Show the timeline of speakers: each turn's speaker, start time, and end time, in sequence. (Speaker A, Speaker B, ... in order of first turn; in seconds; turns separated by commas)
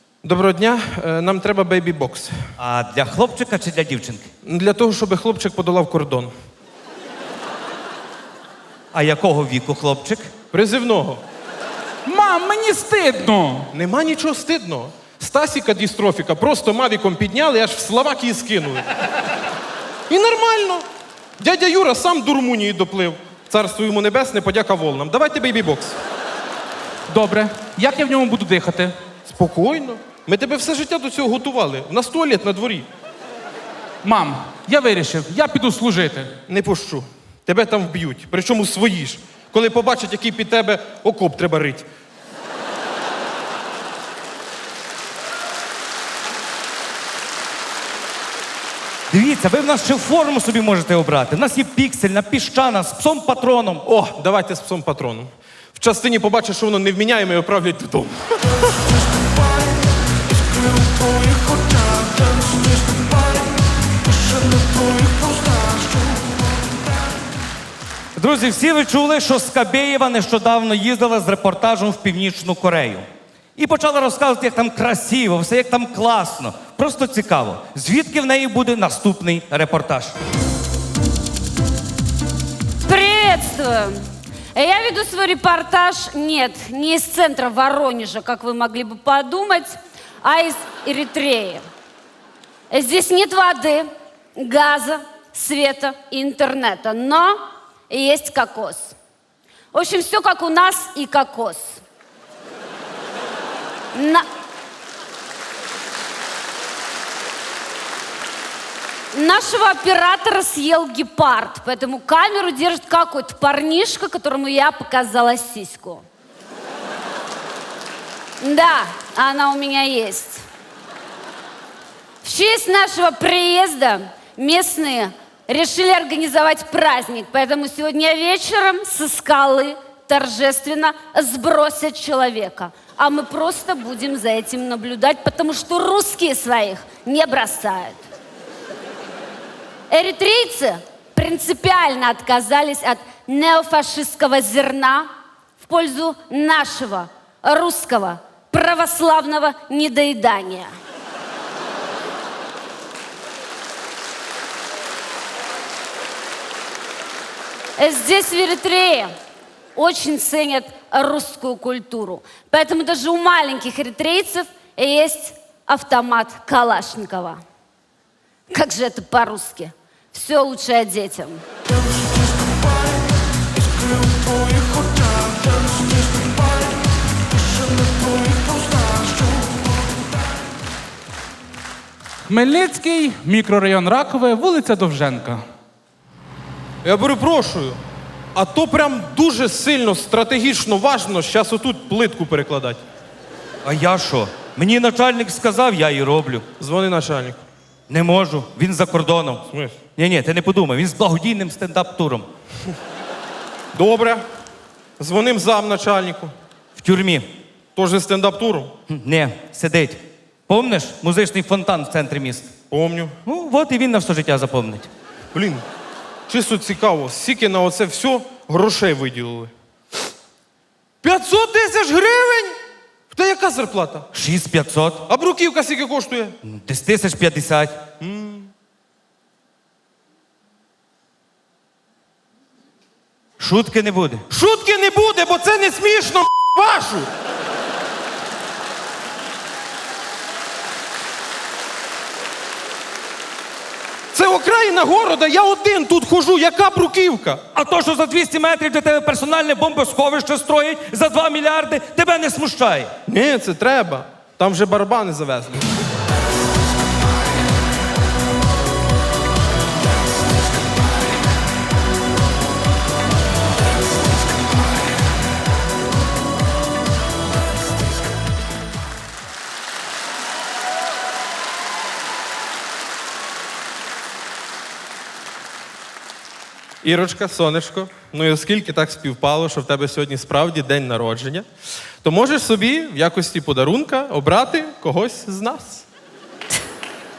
Speaker A: 0.2-2.3, Speaker B: 2.6-4.3, Speaker A: 4.4-6.3, Speaker B: 8.9-10.3, Speaker A: 10.5-11.2, Speaker C: 12.1-13.7, Speaker A: 13.7-18.9, Speaker A: 20.1-20.8, Speaker A: 21.4-26.0, Speaker C: 27.1-28.9, Speaker A: 29.2-32.9, Speaker C: 34.0-36.3, Speaker A: 36.5-41.9, Speaker B: 49.1-53.8, Speaker A: 53.8-58.4, Speaker B: 68.2-73.0, Speaker B: 73.6-80.1, Speaker D: 82.8-84.0, Speaker D: 84.5-91.6, Speaker D: 92.7-93.8, Speaker D: 94.4-98.9, Speaker D: 99.7-101.8, Speaker D: 103.9-104.2, Speaker D: 109.1-116.0, Speaker D: 118.4-120.4, Speaker D: 122.2-138.1, Speaker D: 139.9-145.1, Speaker D: 145.6-150.7, Speaker D: 157.8-159.1, Speaker D: 159.7-167.4, Speaker D: 168.5-171.4, Speaker C: 182.2-185.4, Speaker A: 186.8-187.8, Speaker A: 188.3-192.8, Speaker B: 193.6-196.4, Speaker A: 196.6-197.4, Speaker B: 197.9-202.3, Speaker A: 199.5-199.8, Speaker A: 203.7-204.2, Speaker A: 205.0-206.3, Speaker B: 206.8-207.2, Speaker A: 207.7-208.7, Speaker B: 208.9-212.5, Speaker A: 212.7-213.2, Speaker B: 213.2-214.9, Speaker A: 215.3-215.6, Speaker A: 216.3-219.5, Speaker A: 221.0-222.6, Speaker A: 223.1-224.1, Speaker B: 224.1-225.0, Speaker A: 225.1-226.4, Speaker B: 226.4-227.8, Speaker A: 228.0-228.5, Speaker B: 233.4-234.2, Speaker A: 234.3-237.1, Speaker A: 244.1-247.4, Speaker B: 247.5-252.9, Speaker A: 253.1-255.7, Speaker A: 276.8-281.4, Speaker A: 282.0-285.9